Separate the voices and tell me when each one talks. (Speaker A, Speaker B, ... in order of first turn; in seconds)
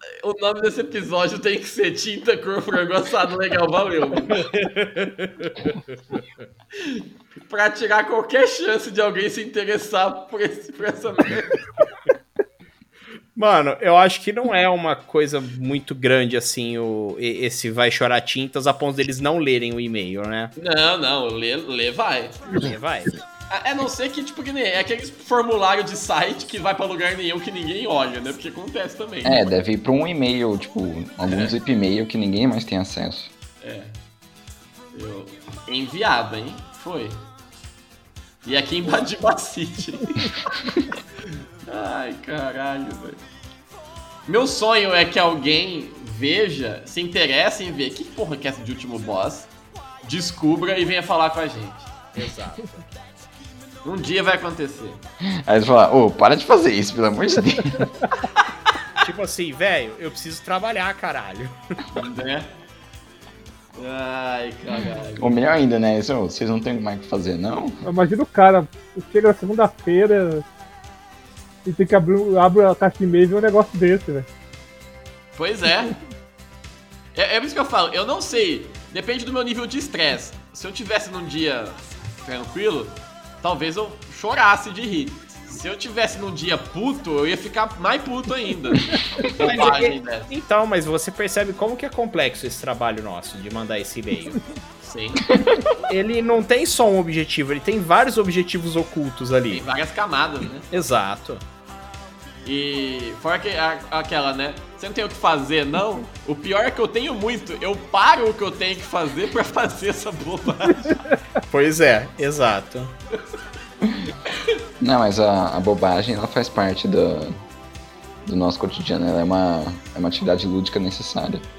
Speaker A: 0.2-4.4, 6.8-11.8, 20.6-22.6, 23.5-29.4, 31.2-31.5, 33.6-34.0, 34.9-37.2, 38.4-40.4, 41.6-43.2, 44.3-49.5, 50.0-51.9, 53.8-55.0, 61.9-62.5, 63.7-65.3, 75.3-76.0, 77.1-90.3, 94.8-95.3, 99.5-100.7, 102.4-111.0
Speaker B: 4.3-6.2, 13.3-20.5, 22.5-23.2, 52.1-52.8, 59.0-61.8, 89.4-94.4, 95.9-99.7, 100.7-101.4, 111.5-112.9
Speaker C: 29.2-33.3, 55.2-57.9, 65.2-67.8, 95.2-95.6, 113.8-114.1, 114.8-117.4, 118.2-121.5
Speaker D: 67.8-70.5, 71.6-74.3